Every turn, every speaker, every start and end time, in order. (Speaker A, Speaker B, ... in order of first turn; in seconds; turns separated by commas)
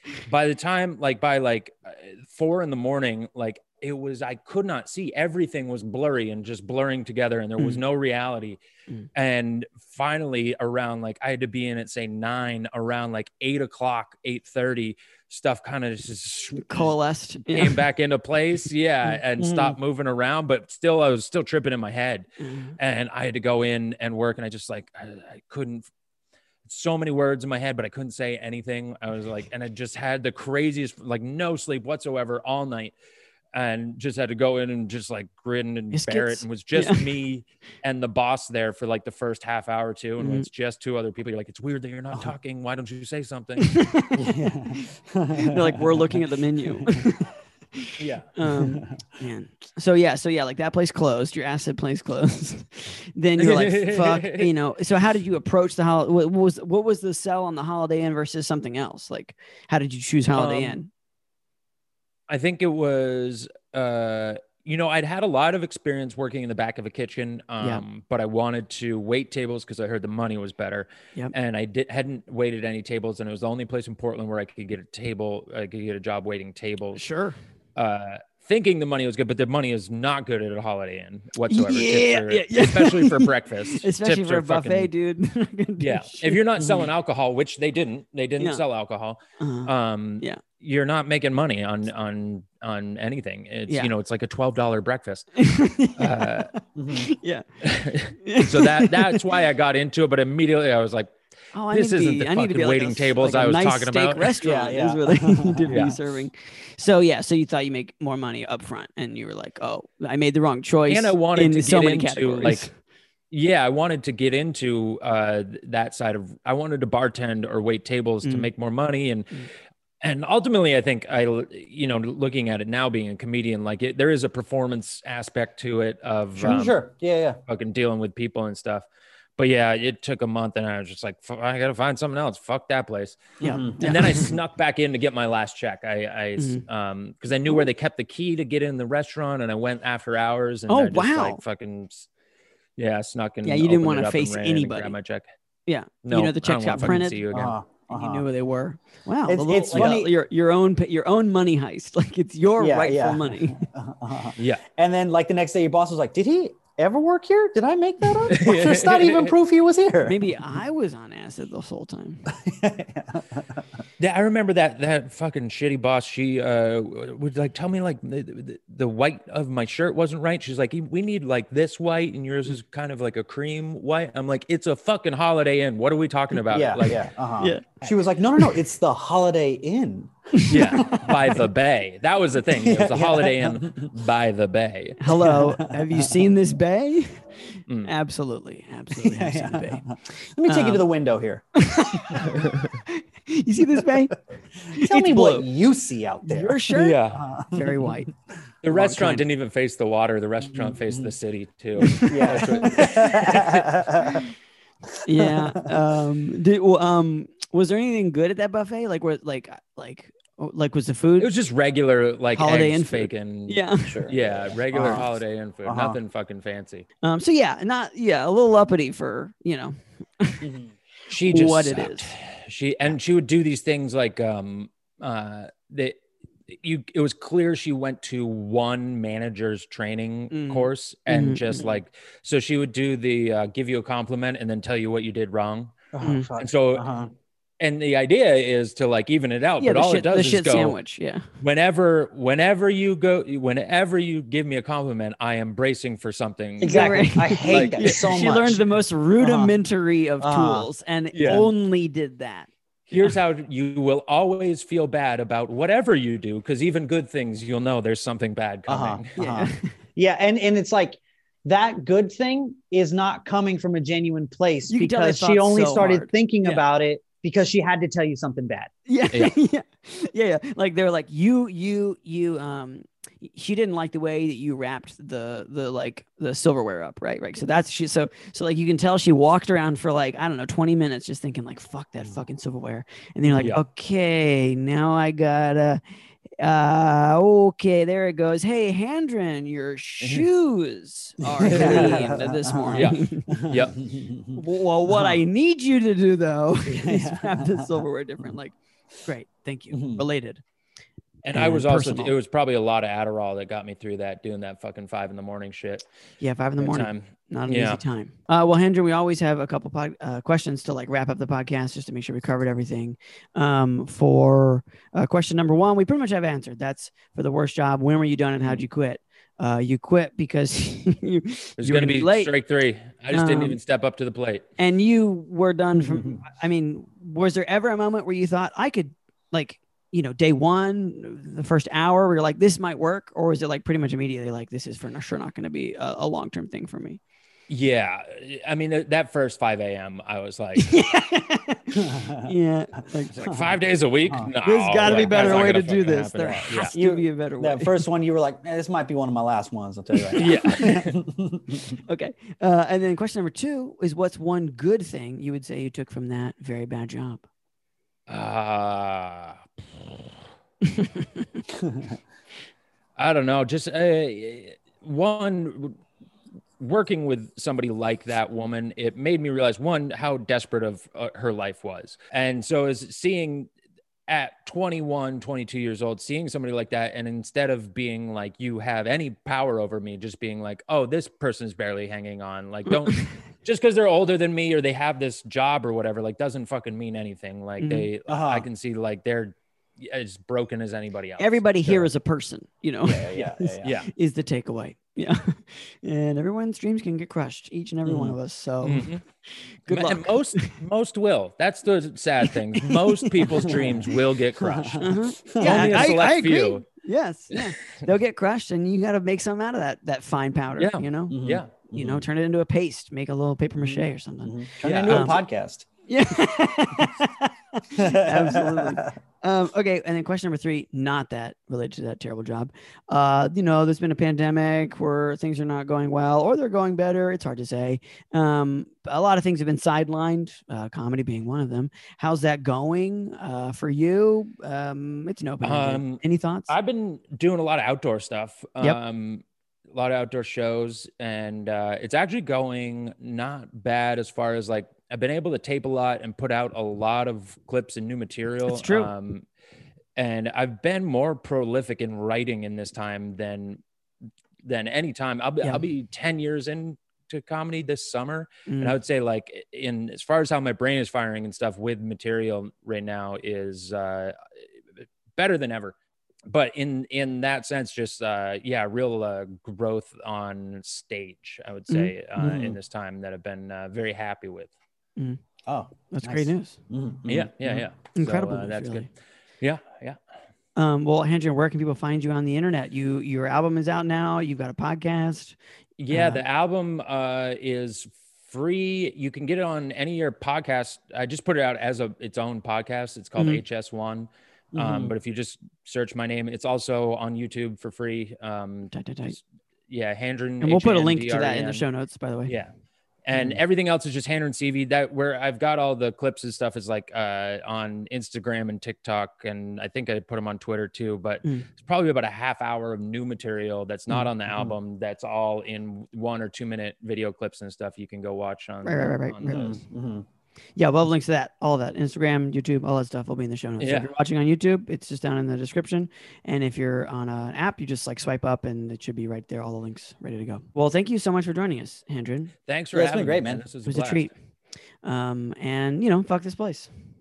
Speaker A: 0.2-8.6, Speaker A: 9.1-16.9, Speaker B: 16.6-17.8, Speaker A: 17.5-22.3, Speaker C: 19.4-19.8, Speaker B: 22.4-22.7, Speaker A: 22.8-25.9, Speaker A: 26.6-32.9, Speaker A: 33.5-43.8, Speaker B: 35.9-37.0, Speaker B: 40.2-40.5, Speaker B: 43.6-60.9, Speaker C: 44.1-47.1, Speaker A: 48.0-48.3, Speaker C: 48.5-48.9, Speaker A: 53.4-54.5, Speaker A: 60.3-60.8, Speaker A: 62.3-77.0, Speaker B: 76.9-77.3, Speaker A: 77.8-84.9, Speaker B: 81.5-86.9, Speaker A: 85.8-96.5, Speaker B: 89.4-90.4, Speaker B: 95.4-97.5, Speaker C: 96.8-97.1, Speaker A: 97.6-101.1, Speaker B: 98.2-99.2, Speaker B: 101.5-112.7, Speaker A: 101.7-104.3, Speaker C: 104.4-105.9, Speaker A: 105.7-106.0, Speaker A: 110.9-112.7, Speaker A: 113.3-119.4, Speaker B: 118.2-118.5, Speaker A: 120.0-126.8, Speaker C: 126.4-127.4, Speaker A: 127.5-128.8, Speaker A: 129.4-142.1, Speaker C: 133.4-134.0, Speaker B: 133.4-134.3, Speaker B: 136.4-136.6, Speaker B: 140.7-141.4, Speaker A: 142.8-145.2, Speaker B: 143.4-144.9, Speaker B: 145.7-147.2, Speaker A: 146.1-147.6, Speaker C: 146.8-148.2, Speaker B: 147.9-153.7, Speaker C: 149.3-150.1, Speaker C: 152.6-160.2, Speaker A: 154.4-154.6, Speaker A: 158.3-159.3, Speaker B: 160.0-162.3, Speaker C: 162.3-163.6, Speaker A: 164.0-177.1, Speaker C: 176.5-181.4, Speaker B: 177.4-177.8, Speaker B: 180.3-180.8, Speaker A: 180.5-185.1, Speaker C: 182.6-183.9, Speaker B: 185.0-187.2, Speaker C: 185.2-186.2, Speaker B: 187.8-189.8, Speaker C: 188.9-192.4, Speaker B: 190.4-190.8, Speaker B: 191.6-194.2, Speaker A: 192.2-192.7, Speaker B: 194.7-195.5, Speaker C: 194.7-197.9, Speaker B: 196.2-198.1, Speaker A: 196.7-197.3, Speaker A: 198.6-203.7, Speaker B: 198.7-199.2, Speaker C: 200.5-201.1, Speaker B: 201.8-202.4, Speaker C: 201.8-204.3, Speaker B: 205.0-211.3, Speaker C: 205.1-205.8, Speaker A: 211.2-216.8, Speaker B: 212.3-214.1, Speaker C: 213.9-215.1, Speaker B: 214.8-215.0, Speaker C: 215.6-216.0, Speaker B: 217.0-220.5, Speaker C: 220.4-220.7, Speaker A: 221.1-236.9, Speaker B: 221.2-222.1, Speaker B: 230.3-231.6, Speaker C: 235.9-237.1, Speaker B: 236.0-236.3, Speaker A: 237.6-240.8, Speaker B: 239.6-241.2, Speaker A: 241.4-248.1, Speaker C: 246.6-248.7, Speaker B: 246.6-253.1, Speaker C: 249.2-249.5, Speaker C: 250.2-250.7, Speaker A: 251.1-251.5, Speaker A: 252.9-259.1, Speaker C: 258.7-268.7, Speaker B: 259.2-259.7, Speaker B: 264.7-266.6, Speaker B: 268.9-285.8, Speaker A: 283.3-283.6, Speaker B: 286.4-293.4, Speaker A: 290.0-290.3, Speaker C: 291.2-295.2, Speaker A: 291.4-292.0, Speaker A: 292.7-293.8, Speaker B: 294.3-300.4, Speaker C: 296.7-297.8, Speaker C: 299.7-300.0, Speaker A: 301.2-305.8, Speaker B: 301.3-302.1, Speaker B: 306.2-322.3, Speaker A: 306.7-307.8, Speaker A: 321.6-324.4, Speaker B: 323.1-323.6, Speaker B: 324.6-337.0, Speaker C: 325.8-326.2, Speaker A: 337.5-340.9, Speaker B: 340.6-343.2, Speaker C: 341.8-342.3, Speaker A: 343.1-346.7, Speaker C: 343.2-343.5, Speaker B: 344.4-347.8, Speaker C: 344.8-345.6, Speaker C: 346.3-351.8, Speaker B: 350.1-350.7, Speaker A: 350.1-351.0, Speaker B: 351.9-357.2, Speaker A: 358.1-360.1, Speaker B: 360.6-361.2, Speaker C: 361.6-361.9, Speaker A: 363.0-365.8, Speaker A: 366.6-373.5, Speaker A: 374.1-391.9, Speaker B: 382.7-382.9, Speaker B: 387.6-387.9, Speaker C: 388.1-388.5, Speaker B: 391.2-398.9, Speaker C: 392.8-393.7, Speaker A: 393.1-393.9, Speaker C: 397.8-398.1, Speaker A: 398.6-399.0, Speaker B: 399.7-400.6, Speaker A: 399.7-406.6, Speaker B: 402.6-403.7, Speaker C: 403.4-405.9, Speaker B: 404.8-411.2, Speaker A: 410.6-411.7, Speaker C: 411.1-412.0, Speaker B: 411.7-415.2, Speaker C: 413.6-415.6, Speaker A: 414.6-415.2, Speaker B: 415.9-436.5, Speaker C: 417.8-418.9, Speaker A: 435.4-449.2, Speaker B: 448.5-448.9, Speaker A: 449.9-453.6, Speaker A: 454.4-464.1, Speaker B: 458.5-458.8, Speaker A: 465.1-465.7, Speaker A: 466.2-474.5, Speaker C: 472.2-472.6, Speaker C: 475.4-477.6, Speaker B: 475.9-476.6, Speaker A: 477.1-478.9, Speaker B: 477.9-478.9, Speaker A: 479.4-480.0, Speaker B: 480.6-485.4, Speaker A: 485.8-501.6, Speaker B: 485.9-486.2, Speaker B: 493.1-493.4, Speaker C: 494.5-494.9, Speaker B: 498.7-499.1, Speaker B: 500.4-502.3, Speaker A: 503.1-519.5, Speaker C: 503.1-503.4, Speaker B: 511.2-511.5, Speaker C: 514.3-514.5, Speaker B: 518.6-519.6, Speaker C: 519.2-520.0, Speaker B: 520.5-532.3, Speaker A: 523.6-523.9, Speaker A: 532.5-534.1, Speaker C: 532.7-533.4, Speaker B: 533.6-534.1, Speaker B: 534.8-536.7